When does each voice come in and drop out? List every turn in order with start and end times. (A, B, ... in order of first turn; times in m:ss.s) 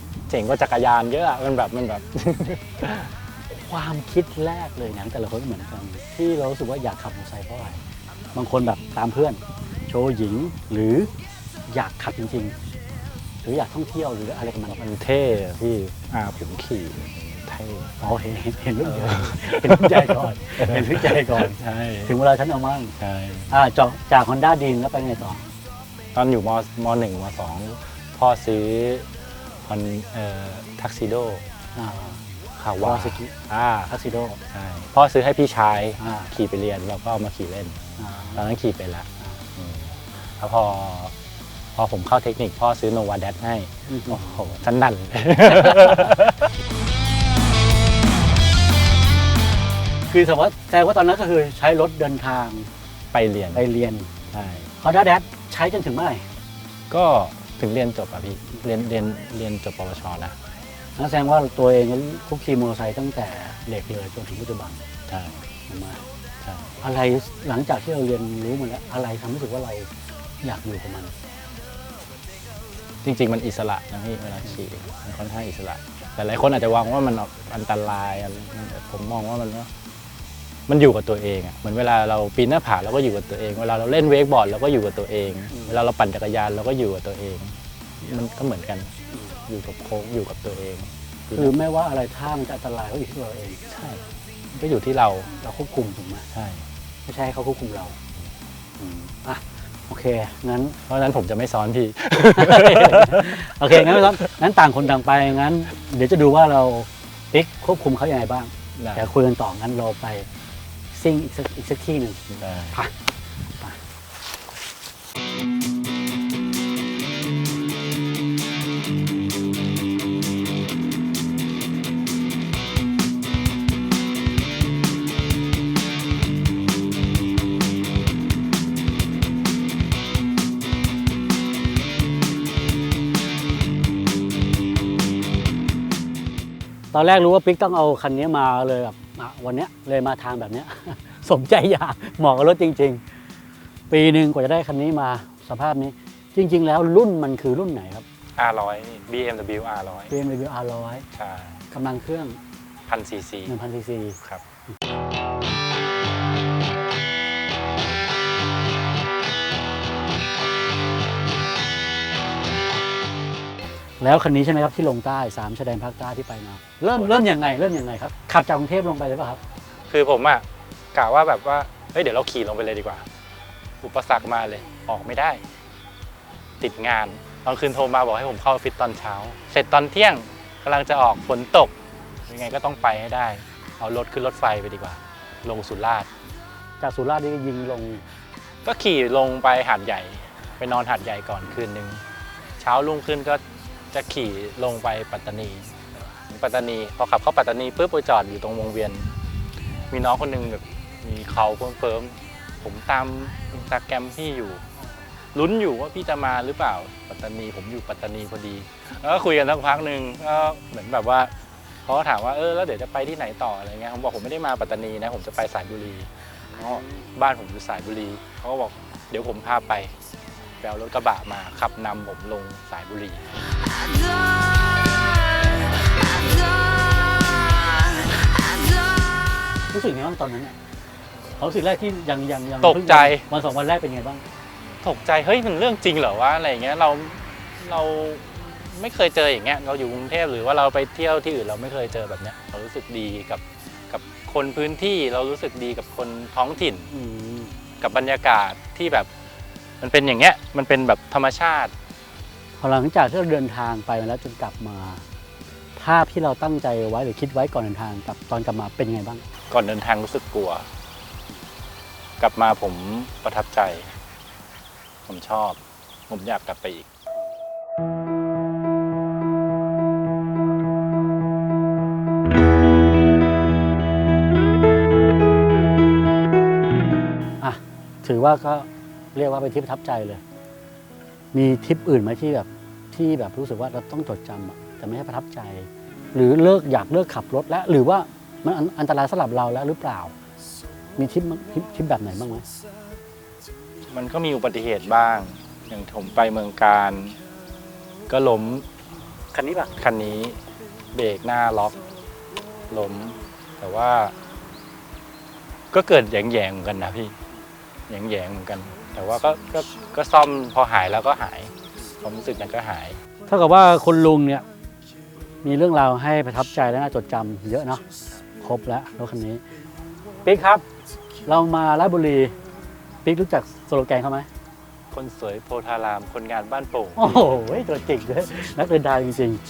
0:00.3-0:03.1 A
0:03.5-0:07.8 B
0:08.3-0:11.1 B
0:11.7-0:12.6 B
0:13.4-0:14.8 B
0:14.7-0:17.9 A
0:18.0-0:23.0 B
0:18.8-0:22.2 A
0:23.0-0:23.5 A
0:23.5-0:25.4 B
0:26.1-0:29.1 A
0:29.6-0:31.4 A
0:31.8-0:32.3 B
0:32.6-0:37.8 A
0:32.8-0:33.3 B
0:33.9-0:34.4 B
0:36.0-0:36.3 B
0:38.0-0:38.4 B
0:38.4-0:41.1 A
0:41.8-0:46.5 A
0:43.9-0:44.5 B
0:50.1-0:52.7 B
0:53.1-0:53.7 A
0:53.5-0:54.1 B
0:54.3-0:54.7 A
0:54.8-0:56.2 B
0:56.9-1:00.4 A
1:01.0-1:04.8 B
1:05.1-1:05.4 A
1:05.7-1:06.0 B
1:06.4-1:06.8 A
1:06.8-1:09.9 B
1:10.4-1:11.1 B
1:13.0-1:19.7 A
1:20.7-1:28.9 A
1:25.5-1:25.8 B
1:29.5-1:31.5 A
1:31.3-1:33.6 B
1:33.7-1:34.0 A
1:34.5-1:35.3 A
1:35.3-1:36.3 B
1:36.3-1:36.6 A
1:37.0-1:38.0 B
1:38.8-1:40.8 B
1:40.9-1:44.3 A
1:42.3-1:50.3 B
1:48.8-1:49.1 A
1:50.9-1:52.9 B
1:52.3-1:52.8 A
2:16.9-2:23.0 B
2:23.9-2:28.0 B
2:28.4-2:30.1 A
2:30.1-2:31.1 B
2:31.1-2:31.6 A
2:31.7-2:32.4 B
2:32.9-2:33.6 A
2:33.5-2:34.2 B
2:44.0-2:49.4 B
2:49.9-2:53.1 A
2:53.8-2:55.4 A
2:56.6-3:01.7 A
3:02.3-3:06.1 A
3:06.8-3:08.0 B
3:08.6-3:12.0 A
3:12.6-3:15.7 A
3:16.3-3:19.2 A
3:19.9-3:24.6 A
3:25.3-3:31.3 A
3:31.8-3:40.0 A
3:36.6-3:37.1 B
3:40.6-3:43.4 A
3:49.7-3:50.6 B
3:51.4-3:54.2 B
3:52.6-3:53.2 A
3:54.8-4:06.9 A
4:06.9-4:07.6 B
4:07.8-4:09.1 A
4:09.8-4:11.7 A
4:12.6-4:15.0 B
4:15.8-4:19.2 B
4:19.5-4:20.7 A
4:22.2-4:24.0 A
4:25.1-4:26.9 A
4:37.4-4:40.2 B
4:41.3-4:50.1 B
4:51.0-4:52.5 B
4:53.9-4:57.2 A
4:58.1-4:58.7 A
4:59.3-4:59.7 B
4:59.8-5:00.4 A
5:00.9-5:01.8 A
5:02.7-5:04.2 A
5:05.7-5:07.2 A
5:07.9-5:13.0 A
5:13.3-5:14.4 B
5:15.4-5:17.8 B
5:18.4-5:19.4 B
5:20.2-5:20.6 B
5:21.3-5:22.3 B
5:23.0-5:24.3 B
5:24.9-5:27.4 A
5:27.0-5:29.4 B